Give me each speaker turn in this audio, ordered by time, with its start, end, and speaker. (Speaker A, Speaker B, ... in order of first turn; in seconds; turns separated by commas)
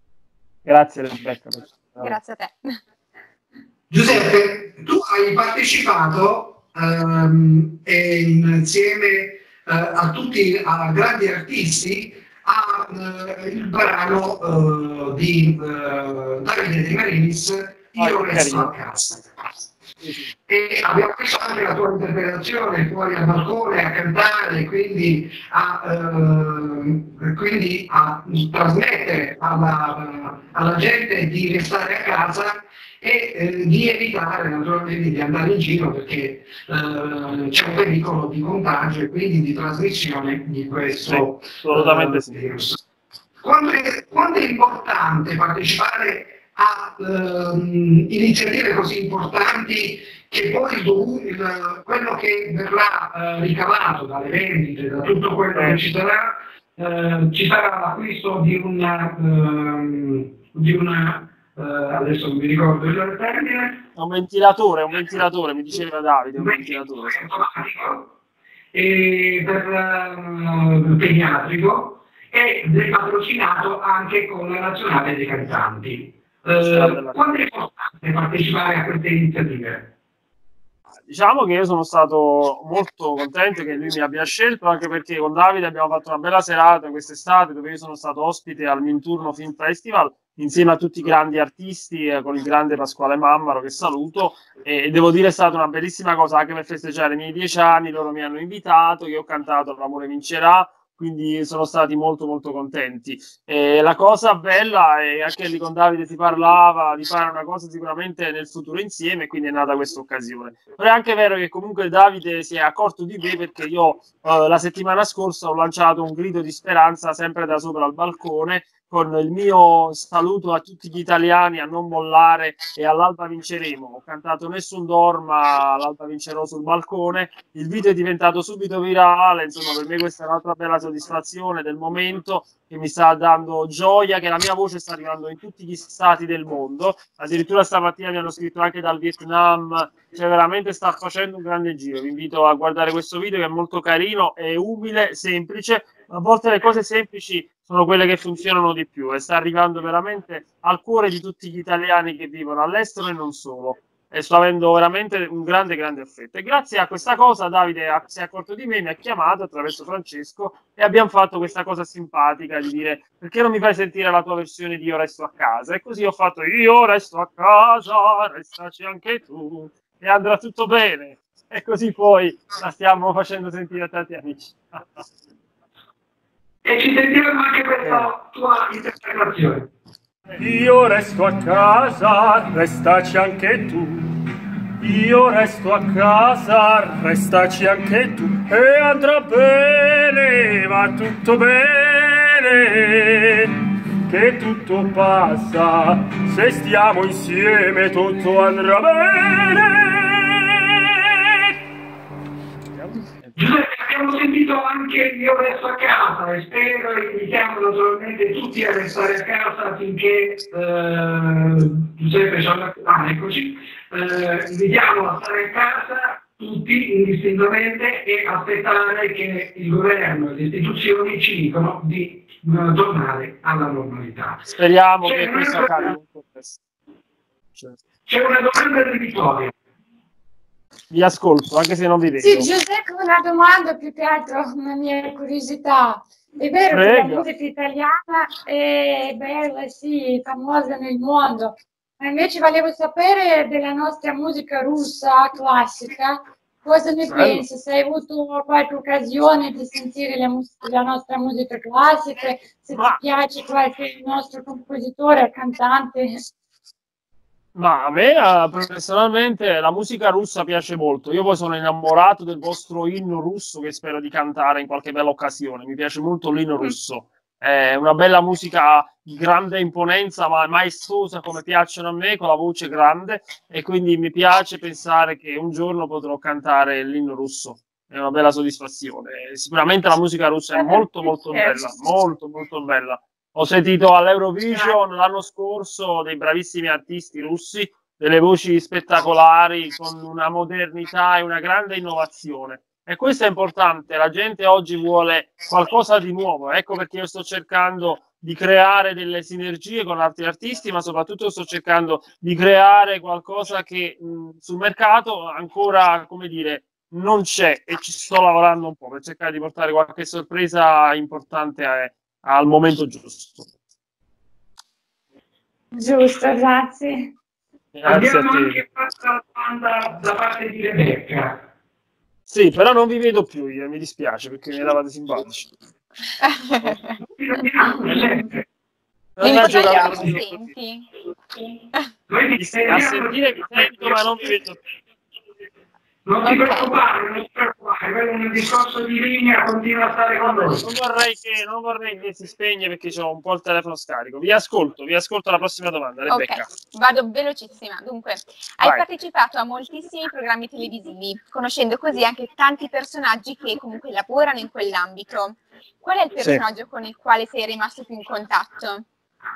Speaker A: 0.6-2.1, Speaker B: 2.0-2.8, Speaker C: 3.9-19.2, Speaker A: 17.9-18.7, Speaker A: 20.0-20.3, Speaker C: 20.5-42.8, Speaker A: 41.0-42.4, Speaker C: 43.4-63.8, Speaker A: 55.5-55.8, Speaker A: 64.0-67.2, Speaker C: 66.4-68.1, Speaker C: 68.7-79.9, Speaker A: 76.6-77.2, Speaker A: 81.1-175.0, Speaker C: 176.6-179.7, Speaker A: 177.8-178.1, Speaker D: 180.4-184.1, Speaker D: 184.8-193.5, Speaker D: 194.1-200.9, Speaker A: 202.8-203.4, Speaker C: 203.3-224.5, Speaker A: 224.5-226.6, Speaker C: 225.0-225.9, Speaker C: 228.1-229.5, Speaker A: 230.9-232.5, Speaker E: 232.2-256.2, Speaker A: 236.7-237.3, Speaker A: 247.1-247.4, Speaker A: 252.7-253.0, Speaker A: 257.5-313.5, Speaker B: 281.3-281.6, Speaker E: 315.7-317.1, Speaker A: 317.7-318.6, Speaker C: 317.9-321.4, Speaker A: 322.3-325.5, Speaker B: 326.2-326.9, Speaker C: 327.0-328.4, Speaker A: 329.2-330.5, Speaker B: 329.2-330.9, Speaker C: 329.3-330.1, Speaker C: 332.1-334.0, Speaker A: 332.4-334.6, Speaker C: 336.0-340.7, Speaker B: 336.2-336.7, Speaker A: 340.2-346.5, Speaker B: 346.1-358.9